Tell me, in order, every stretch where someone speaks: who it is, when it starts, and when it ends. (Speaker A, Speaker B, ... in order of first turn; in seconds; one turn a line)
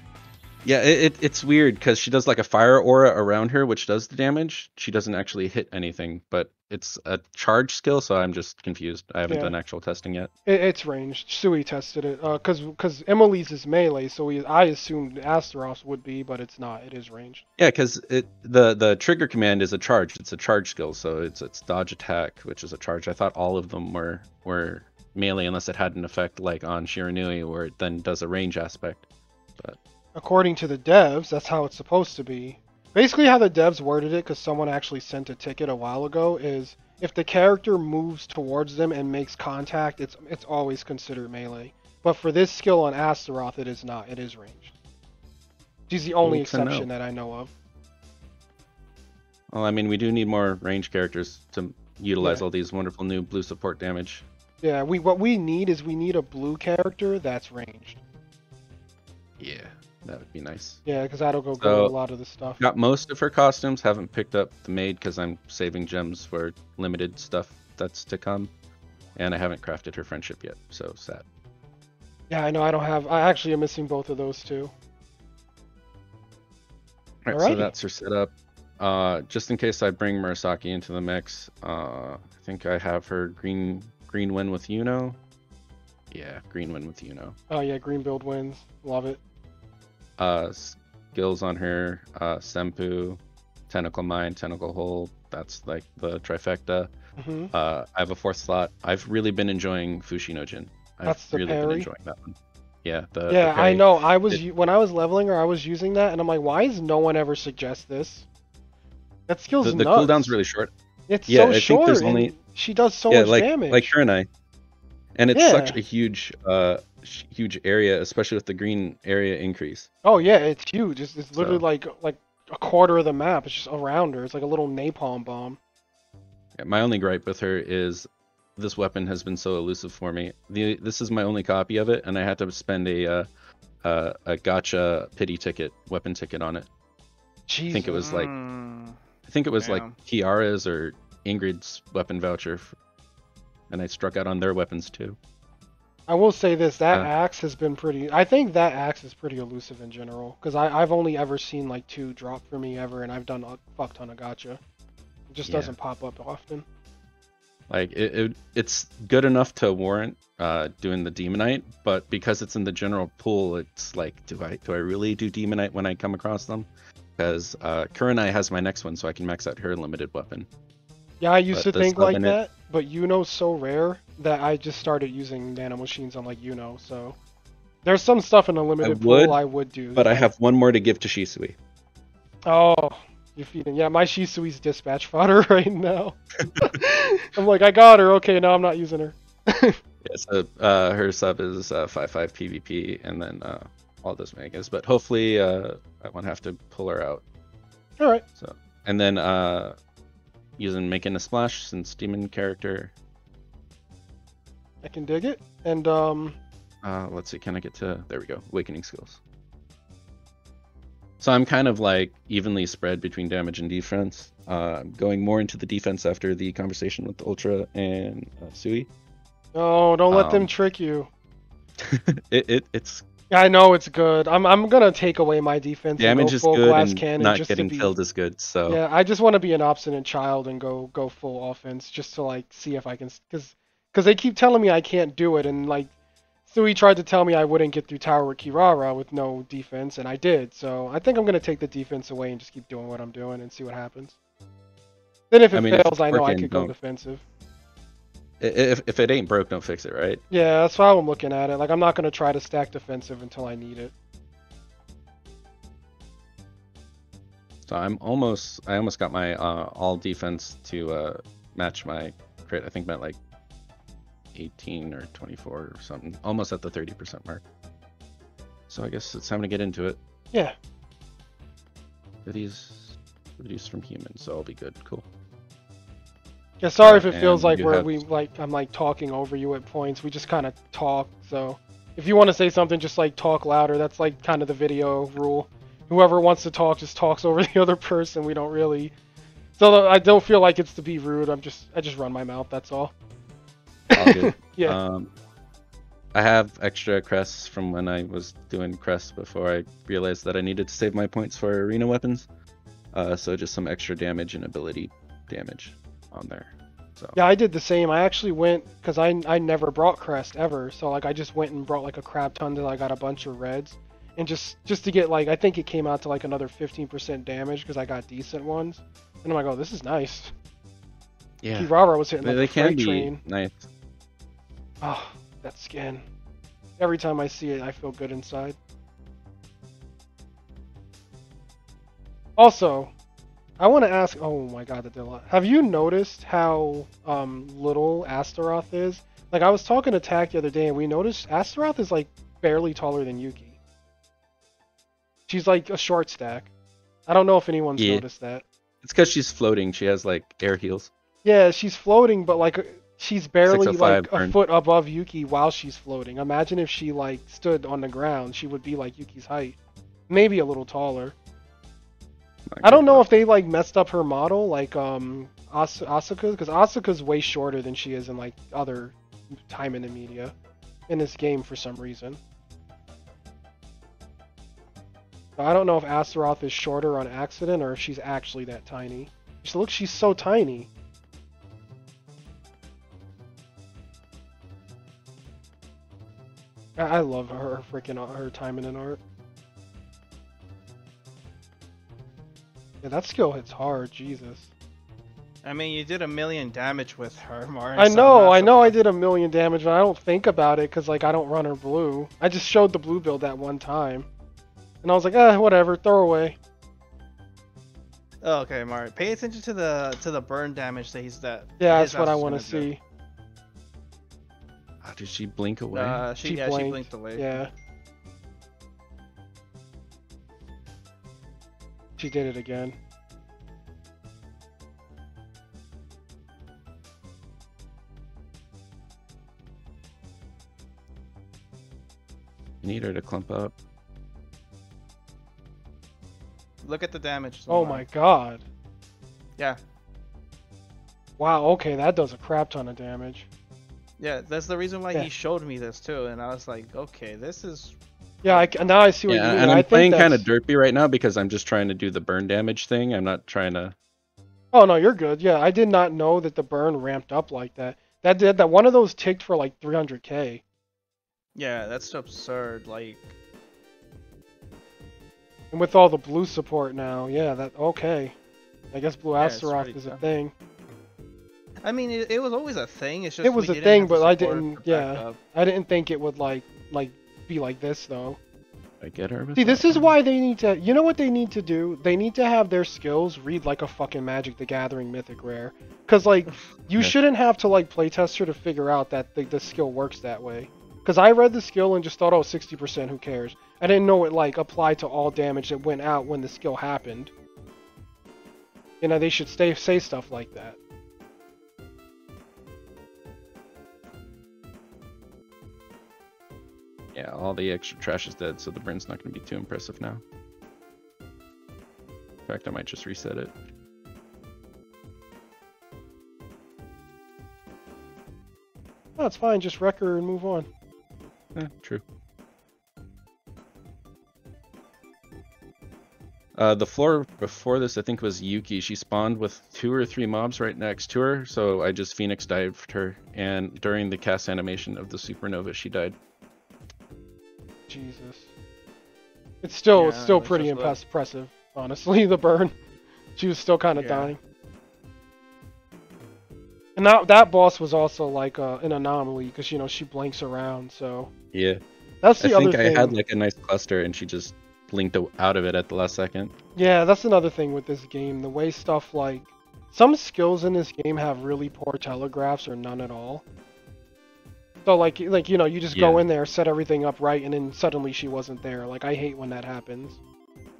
Speaker A: 0.6-10.3
Speaker B: 9.3-9.5
Speaker B: 10.4-17.4
Speaker A: 17.6-29.1
Speaker B: 30.1-44.7
Speaker B: 45.9-47.5
Speaker A: 46.2-46.9
Speaker A: 49.5-54.2
Speaker B: 54.6-58.0
Speaker A: 59.4-60.8
Speaker B: 60.8-62.6
Speaker A: 61.6-61.9
Speaker A: 62.6-68.5
Speaker A: 69.1-71.2
Speaker B: 72.3-74.7
Speaker A: 77.2-85.2
Speaker B: 77.3-77.7
Speaker A: 86.1-87.3
Speaker B: 87.5-89.2
Speaker A: 90.2-96.9
Speaker B: 97.2-97.5
Speaker A: 97.5-104.4
Speaker B: 101.0-101.9
Speaker B: 103.3-108.2
Speaker B: 109.3-110.3
Speaker A: 109.6-110.7
Speaker B: 111.1-113.9
Speaker A: 111.3-112.3
Speaker A: 113.1-114.3
Speaker A: 115.2-119.9
Speaker B: 115.3-115.8
Speaker B: 120.0-125.6
Speaker A: 121.3-121.6
Speaker A: 126.6-133.3
Speaker A: 133.8-136.7
Speaker B: 137.5-138.1
Speaker A: 137.7-138.3
Speaker C: 137.9-139.0
Speaker A: 139.3-142.8
Speaker C: 139.6-139.9
Speaker A: 143.7-145.2
Speaker B: 146.1-154.6
Speaker B: 155.3-156.6
Speaker A: 155.4-155.7
Speaker A: 157.7-170.5
Speaker B: 171.2-177.2
Speaker A: 171.5-172.4
Speaker B: 177.8-180.3
Speaker A: 178.8-179.4
Speaker A: 179.9-181.6
Speaker B: 182.5-189.8
Speaker A: 190.0-197.2
Speaker B: 198.0-198.2
Speaker A: 198.4-199.8
Speaker A: 200.6-202.9
Speaker B: 204.8-206.4
Speaker A: 206.8-209.2
Speaker A: 211.2-218.9
Speaker B: 219.5-221.1
Speaker A: 220.1-220.5
Speaker A: 221.8-223.0
Speaker B: 223.3-227.9
Speaker A: 226.0-228.8
Speaker B: 228.7-235.9
Speaker B: 236.5-244.2
Speaker B: 245.3-247.2
Speaker A: 245.5-246.7
Speaker A: 248.4-250.2
Speaker B: 250.3-253.9
Speaker A: 257.7-263.2
Speaker A: 264.3-267.4
Speaker A: 268.7-270.0
Speaker A: 272.2-275.0
Speaker B: 276.6-288.9
Speaker A: 276.8-278.0
Speaker B: 289.6-292.9
Speaker B: 293.9-294.8
Speaker A: 293.9-295.1
Speaker A: 296.1-302.3
Speaker A: 302.9-307.1
Speaker B: 307.1-320.3
Speaker A: 321.4-323.7
Speaker B: 321.5-323.2
Speaker B: 324.8-326.0
Speaker B: 326.8-328.6
Speaker B: 332.4-332.9
Speaker B: 333.6-343.5
Speaker B: 345.3-346.5
Speaker B: 347.1-348.4
Speaker A: 347.8-348.0
Speaker A: 348.8-350.9
Speaker B: 351.2-359.6
Speaker A: 353.4-354.3
Speaker B: 360.1-361.1
Speaker A: 362.5-363.0
Speaker B: 362.6-370.3
Speaker B: 370.9-372.2
Speaker B: 375.4-380.7
Speaker B: 386.8-389.0
Speaker B: 392.8-394.5
Speaker C: 395.4-398.7
Speaker B: 397.8-404.1
Speaker B: 404.8-406.4
Speaker C: 408.2-412.7
Speaker B: 411.6-412.8
Speaker A: 414.8-416.0
Speaker C: 415.7-417.5
Speaker B: 416.2-417.5
Speaker B: 422.0-422.8
Speaker A: 432.6-433.5
Speaker C: 436.6-437.9
Speaker B: 437.5-438.4
Speaker B: 441.2-443.3
Speaker C: 444.0-448.5
Speaker B: 448.2-450.3
Speaker A: 449.1-453.7
Speaker B: 454.5-460.4
Speaker C: 461.3-463.1
Speaker B: 465.5-468.1
Speaker B: 468.7-470.3
Speaker C: 469.2-470.0
Speaker C: 471.6-475.2
Speaker B: 473.2-478.2
Speaker A: 478.8-479.9
Speaker B: 479.4-497.1
Speaker B: 498.8-500.6
Speaker A: 506.9-510.0
Speaker A: 512.2-513.3
Speaker B: 519.0-520.5
Speaker A: 521.3-521.8
Speaker A: 526.3-536.0
Speaker B: 537.7-538.3
Speaker B: 539.4-542.5
Speaker C: 539.7-540.8
Speaker B: 543.1-544.2
Speaker C: 543.7-544.1
Speaker B: 546.8-551.1
Speaker A: 551.3-551.6
Speaker B: 552.0-553.0
Speaker A: 552.2-556.3
Speaker B: 556.5-563.2
Speaker B: 564.6-570.0
Speaker A: 565.7-566.0